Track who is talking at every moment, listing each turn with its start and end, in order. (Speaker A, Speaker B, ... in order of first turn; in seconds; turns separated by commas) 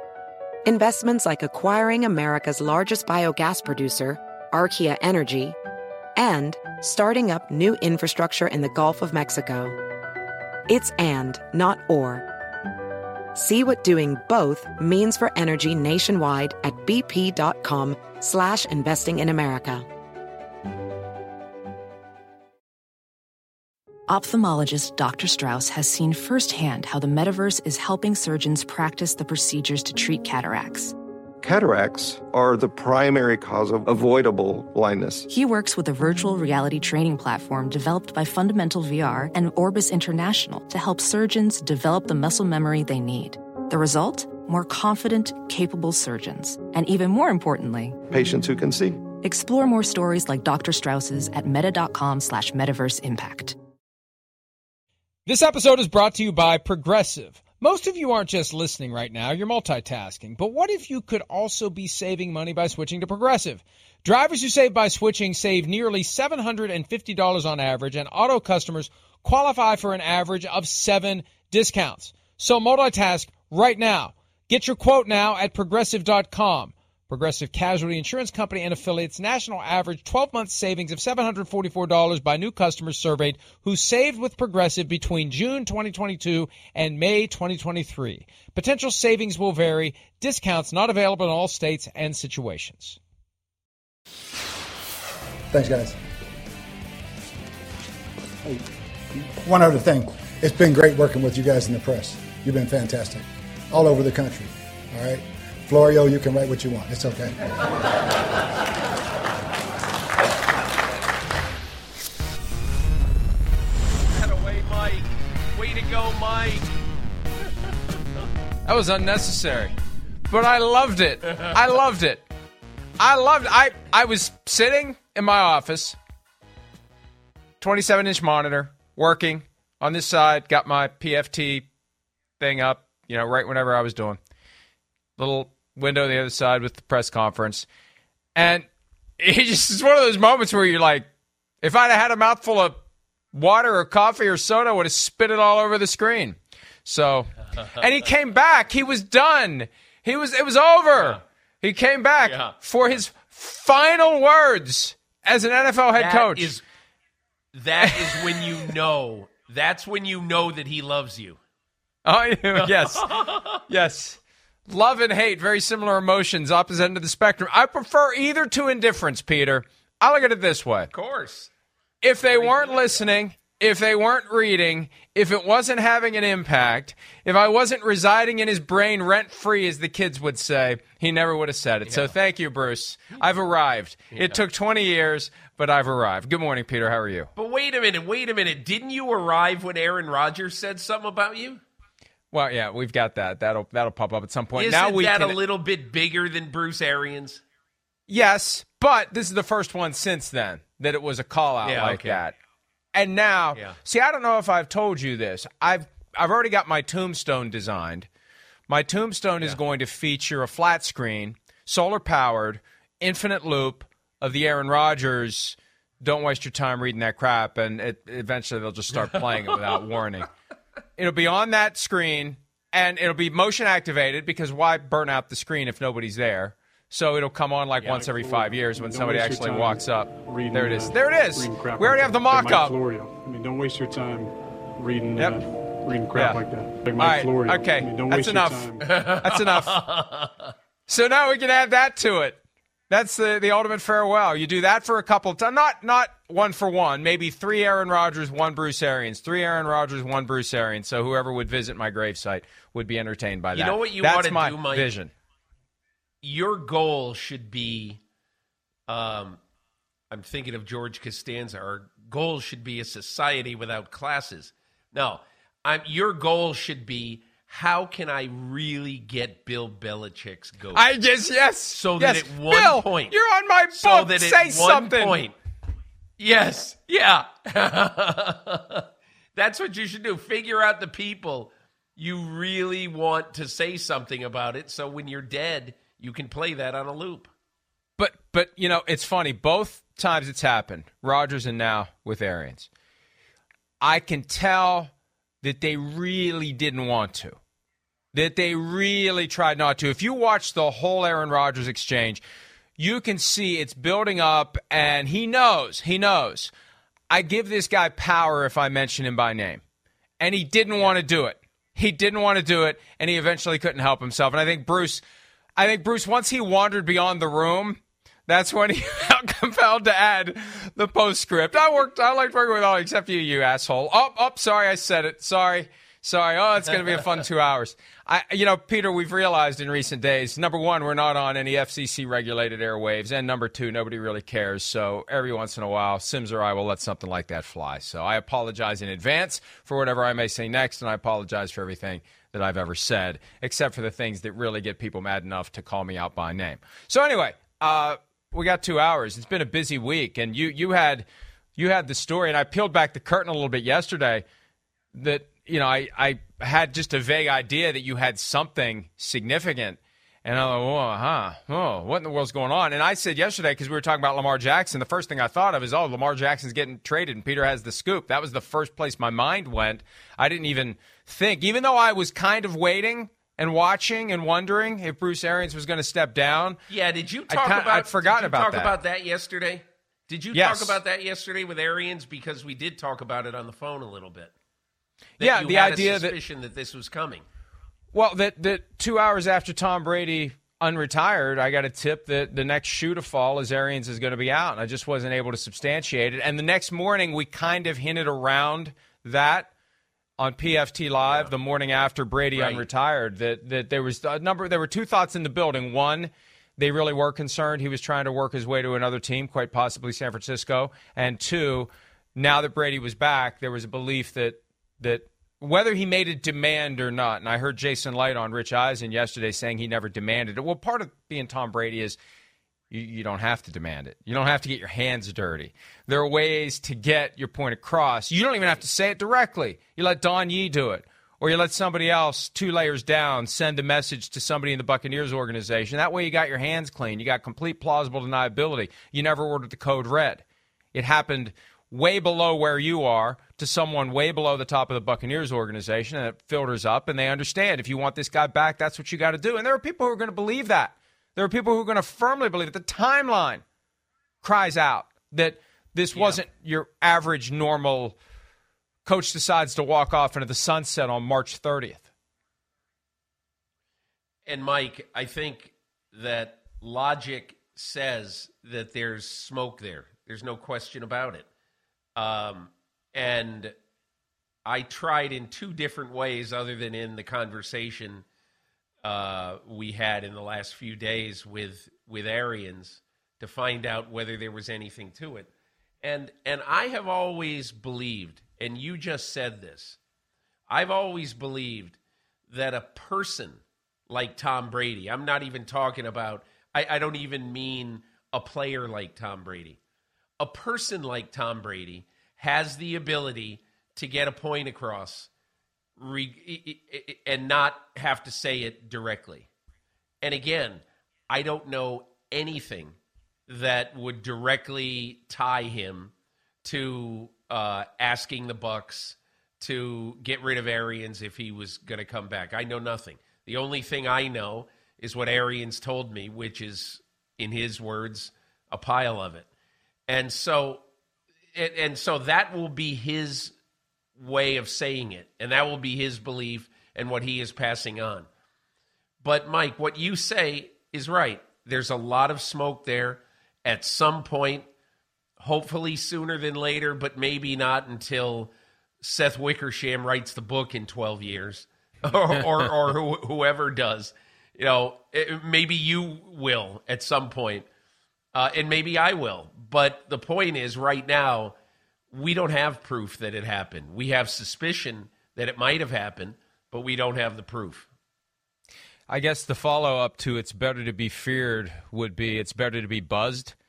Speaker A: 0.6-5.6, Speaker A: 6.2-9.8, Speaker A: 10.7-12.2, Speaker A: 13.3-19.9, Speaker B: 24.1-30.9, Speaker C: 31.4-35.3, Speaker B: 35.3-48.0, Speaker C: 48.1-49.0, Speaker B: 49.2-53.5, Speaker D: 55.2-93.0, Speaker E: 95.5-96.0, Speaker E: 98.4-107.4, Speaker F: 114.1-116.8, Speaker D: 118.7-119.7, Speaker D: 120.3-122.2, Speaker D: 123.0-126.0, Speaker D: 127.6-131.7, Speaker D: 132.4-134.2, Speaker D: 135.2-137.7, Speaker D: 138.3-138.7, Speaker D: 139.2-141.1, Speaker D: 141.6-142.8, Speaker D: 143.3-156.5, Speaker F: 150.9-151.2, Speaker F: 152.2-152.5, Speaker F: 155.9-156.6, Speaker F: 157.5-161.4, Speaker D: 157.8-158.7, Speaker D: 162.0-170.9, Speaker F: 162.5-163.6, Speaker F: 170.9-171.5, Speaker D: 172.0-187.3, Speaker F: 172.2-173.1, Speaker F: 181.8-182.1, Speaker F: 184.1-184.4, Speaker F: 187.3-191.6, Speaker D: 192.3-195.4, Speaker F: 194.6-197.4, Speaker D: 198.1-202.3, Speaker F: 201.6-202.2, Speaker D: 202.9-208.1, Speaker D: 208.7-220.3, Speaker D: 221.0-232.7, Speaker G: 227.9-238.9, Speaker D: 235.2-235.4, Speaker D: 236.1-239.8, Speaker F: 238.8-240.5, Speaker D: 240.9-255.1, Speaker F: 253.5-254.9, Speaker F: 256.2-258.0, Speaker F: 258.9-259.4, Speaker F: 260.1-270.9, Speaker D: 270.7-275.2, Speaker F: 271.7-273.1, Speaker F: 273.7-275.3, Speaker F: 276.2-287.3, Speaker D: 288.0-292.7, Speaker D: 293.8-297.4, Speaker D: 298.1-302.2, Speaker D: 302.8-306.5, Speaker D: 307.1-309.6, Speaker D: 310.2-315.0, Speaker D: 315.6-354.2, Speaker D: 354.9-376.6, Speaker F: 376.7-384.3, Speaker D: 377.3-378.7, Speaker D: 380.3-380.8, Speaker D: 385.2-386.1, Speaker F: 385.2-387.2, Speaker D: 387.9-399.5, Speaker D: 400.2-422.0, Speaker F: 402.3-402.6, Speaker D: 422.7-453.4, Speaker D: 454.2-458.0, Speaker F: 455.9-456.2, Speaker D: 458.9-461.9, Speaker F: 464.2-471.3, Speaker F: 471.9-473.5, Speaker F: 474.4-478.0, Speaker F: 478.8-485.3, Speaker F: 485.8-489.8, Speaker F: 490.5-491.8, Speaker F: 492.3-499.6, Speaker F: 500.2-505.1, Speaker F: 505.8-509.3, Speaker F: 510.0-512.8, Speaker F: 513.3-515.9, Speaker F: 516.4-529.3, Speaker F: 529.9-530.6, Speaker F: 531.3-533.3, Speaker F: 534.0-538.1, Speaker F: 539.0-544.5, Speaker F: 545.2-557.5, Speaker F: 558.1-561.3, Speaker F: 561.9-567.7, Speaker D: 568.9-573.3